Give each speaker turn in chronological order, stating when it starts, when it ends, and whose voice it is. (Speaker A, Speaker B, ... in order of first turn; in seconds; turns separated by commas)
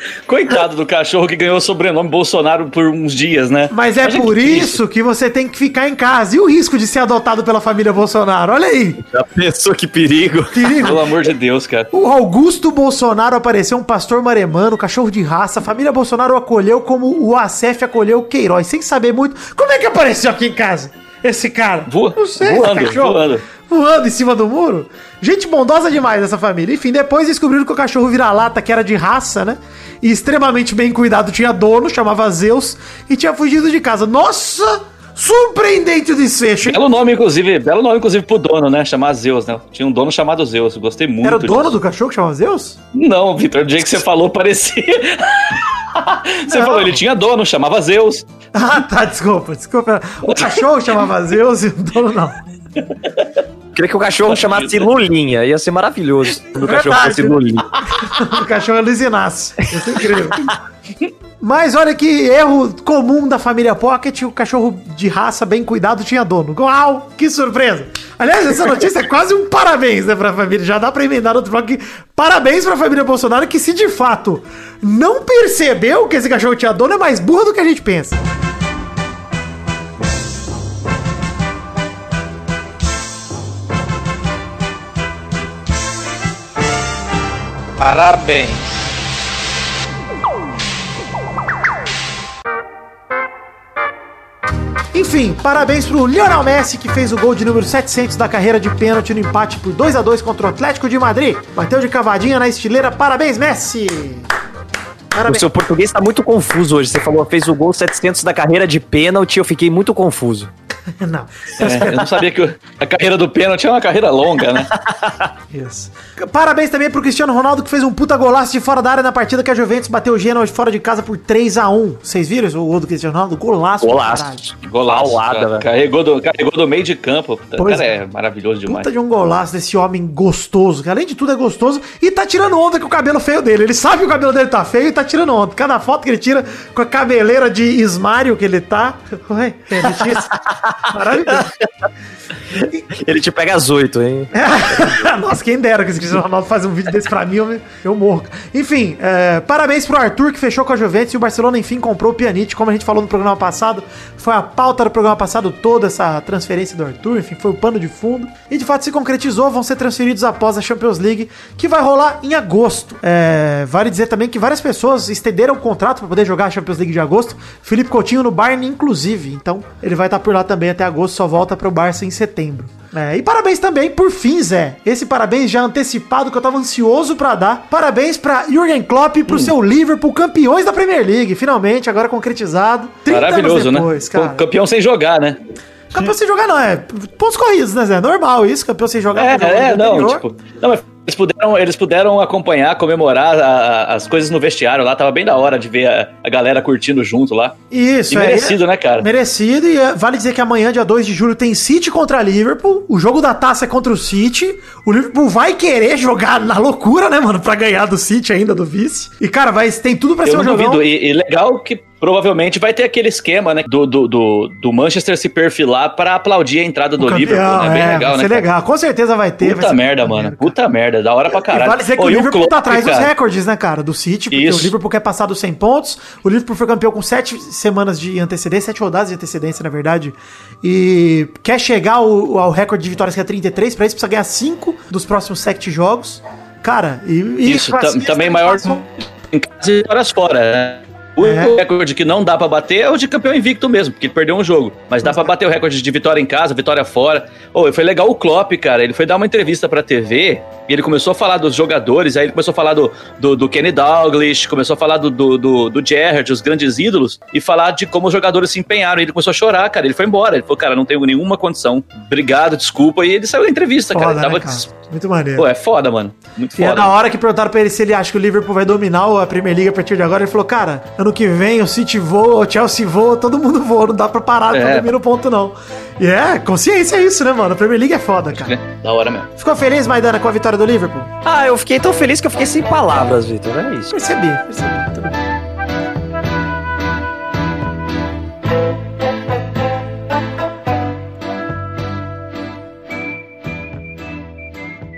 Speaker A: 0.3-4.8, Speaker B: 3.7-9.0, Speaker C: 9.0-10.9, Speaker B: 10.5-11.1, Speaker A: 10.8-11.9, Speaker B: 11.9-36.8, Speaker A: 21.9-23.4, Speaker A: 36.7-41.8, Speaker B: 41.2-42.8, Speaker A: 42.9-48.2, Speaker B: 46.5-47.0, Speaker B: 48.5-52.4, Speaker A: 50.2-50.6, Speaker A: 52.8-53.4, Speaker C: 53.8-57.8, Speaker A: 54.3-54.8, Speaker B: 56.6-60.6, Speaker B: 61.4-78.2, Speaker A: 87.8-88.8, Speaker B: 94.9-104.2, Speaker B: 105.1-105.5, Speaker C: 105.3-110.5, Speaker B: 111.0-112.2, Speaker A: 111.6-114.7, Speaker C: 114.7-115.3, Speaker B: 115.5-124.5, Speaker C: 123.8-125.7, Speaker A: 124.7-128.9, Speaker B: 127.6-127.9, Speaker B: 128.7-141.5, Speaker C: 139.8-140.8, Speaker C: 141.3-141.7, Speaker C: 142.6-145.0, Speaker B: 144.3-184.5, Speaker A: 183.1-185.4, Speaker B: 185.9-190.2, Speaker A: 189.2-197.6, Speaker B: 197.7-210.8, Speaker A: 198.1-199.1, Speaker A: 210.2-218.5, Speaker B: 217.0-220.5, Speaker A: 219.4-223.1, Speaker B: 221.3-238.8, Speaker A: 224.3-224.7, Speaker A: 237.4-264.7, Speaker B: 241.2-241.6, Speaker B: 245.0-245.3, Speaker B: 263.9-265.5, Speaker A: 265.4-266.9, Speaker B: 266.6-278.6, Speaker A: 274.5-274.9, Speaker A: 278.3-279.3, Speaker B: 279.4-281.1, Speaker C: 281.2-283.9, Speaker B: 283.9-285.2